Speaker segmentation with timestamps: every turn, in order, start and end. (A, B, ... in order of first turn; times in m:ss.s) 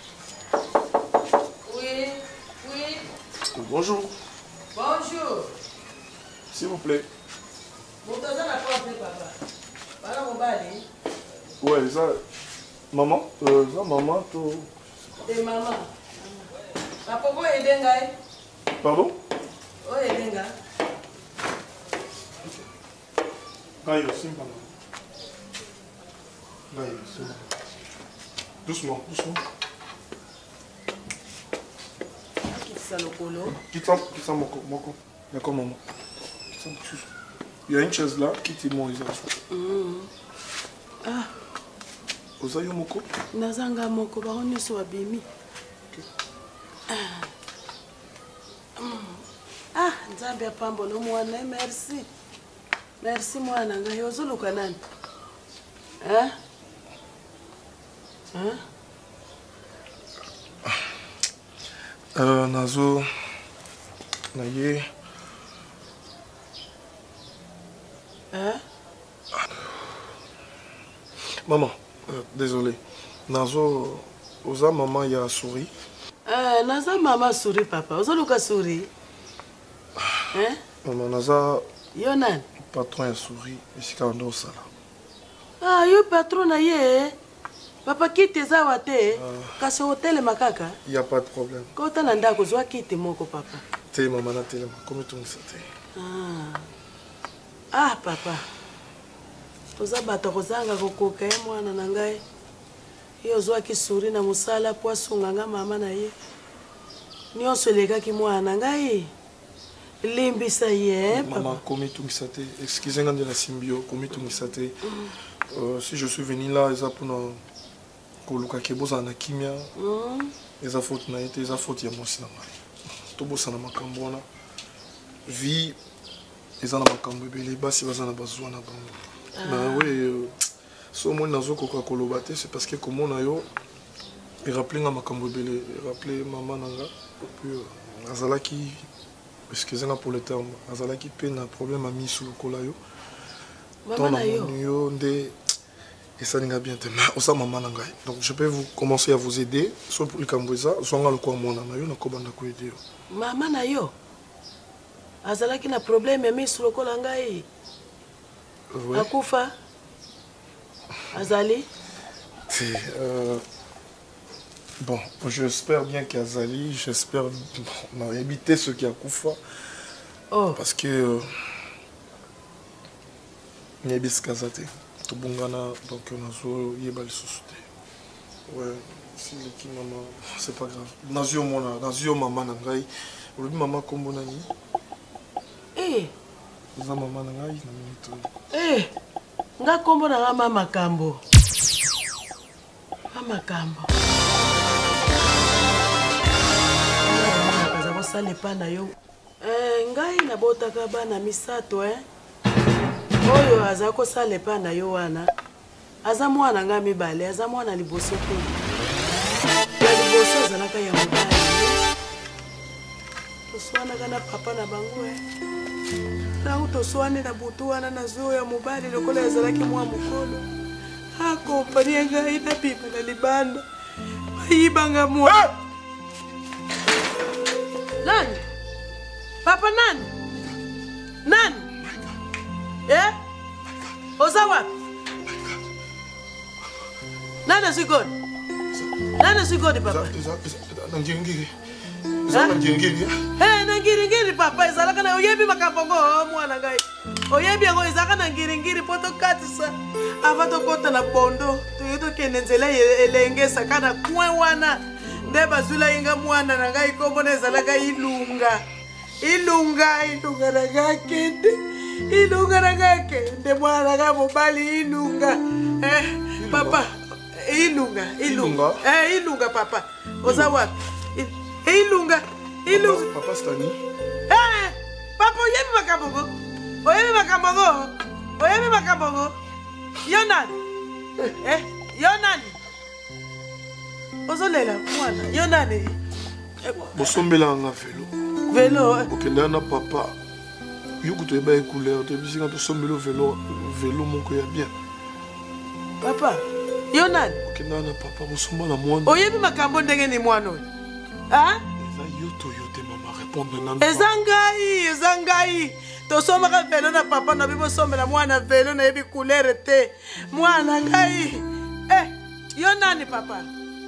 0:01.7-0:03.0 A
0:03.6-0:04.1 B
0:04.7-0:05.5 A
0:06.5-0:07.1 B
0:08.0-0:09.3 A
0:10.0-0:10.8 A
0:11.6-0:12.2 B
0:12.9-0:14.7 B
0:15.2-0:16.4 A
0:17.0-0:18.1 A
0:18.8-0:19.2 B
0:19.8-0:20.5 A
0:23.8-0:24.7 B
0:26.7-0:27.4 B
0:28.7-0:29.4 B
0:32.5-0:33.6 A
0:33.7-0:35.8 B
0:36.6-0:37.1 B
0:37.7-0:39.2 B
0:39.5-0:40.1 A
0:41.0-0:41.3 A
0:42.4-0:43.1 B
0:43.3-0:45.2 A
0:46.9-0:47.3 A
0:48.8-0:49.2 A
0:49.8-0:52.1 A
0:53.0-0:54.8 A
0:56.0-0:56.4 A
0:58.3-0:58.6 A
1:02.2-1:03.1 B
1:04.3-1:04.9 B
1:08.3-1:08.6 A
1:11.5-1:15.7 B
1:16.3-1:18.9 A
1:20.3-1:20.6 A
1:20.8-1:21.6 B
1:22.0-1:22.4 A
1:22.6-1:24.7 B
1:25.6-1:27.2 A
1:27.9-1:30.8 A
1:29.1-1:29.6 B
1:30.9-1:31.7 B
1:31.8-1:33.6 A
1:33.9-1:35.7 B
1:36.0-1:36.7 A
1:37.7-1:38.4 A
1:39.8-1:42.2 A
1:43.2-1:46.1 A
1:47.3-1:49.1 A
1:50.0-1:51.6 A
1:51.1-1:54.7 B
1:54.9-1:55.1 A
1:55.5-1:57.4 B
1:58.2-1:59.7 B
1:59.8-2:00.3 A
2:00.6-2:02.5 B
2:03.1-2:04.2 B
2:05.3-2:05.8 B
2:06.6-2:10.3 B
2:09.4-2:10.0 A
2:10.9-2:13.5 B
2:14.4-2:18.9 B
2:19.5-2:22.8 B
2:23.8-2:24.6 A
2:24.0-2:25.4 B
2:26.2-2:32.8 B
2:33.1-2:33.9 A
2:35.2-2:37.4 A
2:38.7-2:39.1 B
2:38.9-2:39.5 A
2:41.1-2:41.7 A
2:42.5-2:43.4 B
2:44.8-2:49.4 B
2:50.3-2:50.6 A
2:50.6-2:51.3 B
2:53.8-2:57.6 B
2:58.5-3:04.5 B
3:05.8-3:06.1 A
3:06.8-3:08.3 B
3:08.5-3:08.9 A
3:09.6-3:11.2 A
3:13.1-3:13.9 A
3:17.0-3:22.0 A
3:23.3-3:25.3 A
3:26.0-3:28.5 A
3:29.8-3:31.8 A
3:33.5-3:35.2 A
3:36.4-3:40.4 A
3:41.2-3:43.6 A
3:44.4-3:45.5 A
3:48.0-3:48.4 A
3:49.4-3:50.1 A
3:51.2-3:51.7 A
3:52.9-3:53.2 A
3:54.2-3:54.7 A
3:57.5-3:58.1 A
3:59.2-4:00.1 A
3:59.8-4:01.6 B
4:02.3-4:03.2 B
4:02.3-4:02.6 A
4:03.4-4:18.6 A
4:19.2-4:33.1 A
4:26.4-4:26.8 B
4:28.2-4:28.8 B
4:30.2-4:30.6 B
4:32.7-4:33.8 B
4:34.3-4:36.3 A
4:36.8-4:39.4 A
4:40.0-4:40.6 A
4:41.2-4:42.6 A
4:44.3-4:46.0 A
4:46.6-4:47.2 A
4:46.9-4:48.1 B
4:48.5-4:49.1 A
4:49.1-4:50.2 B
4:51.0-4:54.7 B
4:56.0-4:57.4 A
4:57.5-4:59.2 B
4:59.0-5:00.6 A
5:01.3-5:01.6 A
5:01.8-5:04.1 B
5:03.8-5:13.5 A